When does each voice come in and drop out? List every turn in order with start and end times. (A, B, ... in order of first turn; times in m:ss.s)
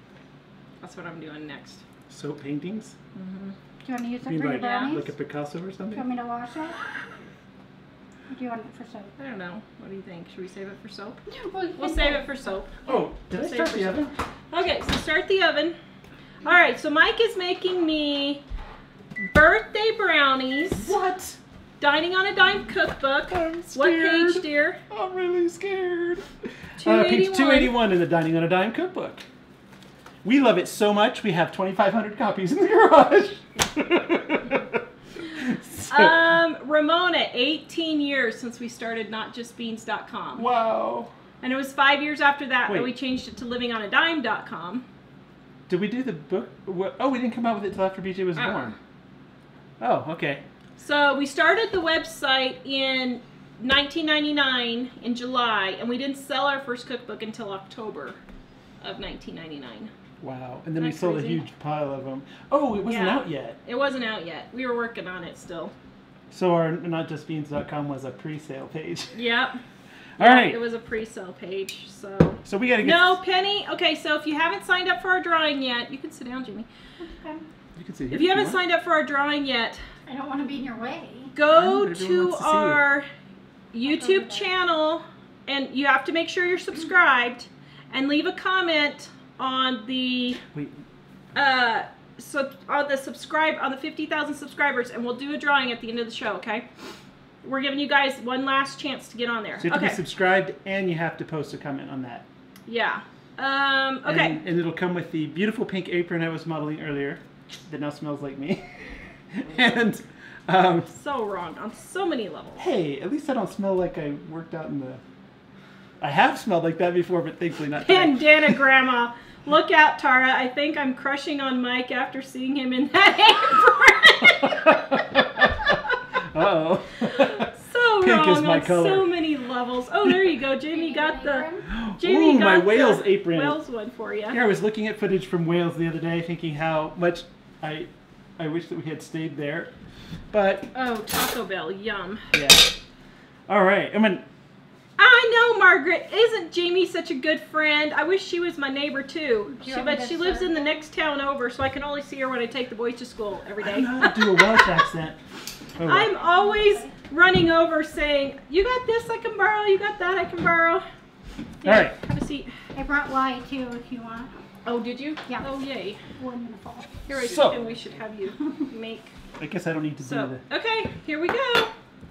0:00.8-0:01.8 A
0:02.1-0:03.0 B
0:03.2-0:03.6 A
0:03.8-0:05.1 C
0:04.2-0:06.1 B
0:04.6-0:04.9 A
0:06.0-0:06.8 C
0:08.3-0:09.1 C
0:09.2-0:11.2 A
0:11.3-0:12.5 C
0:11.8-0:14.0 A
0:12.8-0:14.1 B
0:14.5-0:15.8 A
0:16.4-0:18.4 A
0:19.3-0:20.9 A
0:20.7-0:21.4 B
0:21.8-0:24.8 A
0:23.3-0:29.2 B
0:26.8-0:27.8 A
0:30.2-0:36.4 B
0:35.9-0:40.5 A
0:40.4-0:41.1 B
0:41.4-0:44.8 A
0:42.7-0:42.9 B
0:45.7-0:48.8 B
0:48.4-0:48.7 A
0:49.8-0:50.4 B
0:50.8-0:58.2 A
0:58.8-0:59.9 A
1:00.2-1:03.6 B
1:00.8-1:01.4 A
1:02.9-1:05.7 A
1:06.3-1:09.2 B
1:09.1-1:09.6 A
1:10.2-1:10.6 B
1:10.2-1:16.7 A
1:12.4-1:13.2 B
1:17.0-1:17.4 C
1:17.8-1:18.6 B
1:18.1-1:19.8 A
1:20.1-1:21.3 C
1:21.4-1:23.1 A
1:21.5-1:22.8 B
1:23.7-1:30.4 A
1:23.8-1:24.5 C
1:30.4-1:30.8 B
1:31.3-1:36.7 A
1:37.4-1:40.0 A
1:39.6-1:42.3 B
1:42.7-1:44.4 A
1:44.0-1:48.7 B
1:49.3-1:50.9 B
1:50.9-1:52.7 A
1:52.6-1:55.0 B
1:56.0-1:58.6 B
1:57.8-2:04.8 A
2:04.2-2:07.5 B
2:07.2-2:14.4 A
2:08.0-2:09.1 B
2:10.7-2:11.7 C
2:11.7-2:13.6 B
2:14.3-2:19.7 B
2:20.3-2:20.7 B
2:20.7-2:22.2 A
2:22.3-2:22.7 B
2:23.5-2:24.2 B
2:25.0-2:34.8 A
2:29.5-2:30.8 C
2:33.6-2:35.2 B
2:35.8-2:36.1 B
2:35.8-2:40.8 A
2:36.2-2:36.9 C
2:41.6-2:42.5 A
2:41.6-2:42.0 B
2:42.7-2:44.4 C
2:44.6-2:46.0 A
2:46.2-2:47.0 C
2:47.1-2:49.1 A
2:47.2-2:47.6 B
2:49.4-2:50.4 B
2:50.0-2:51.7 A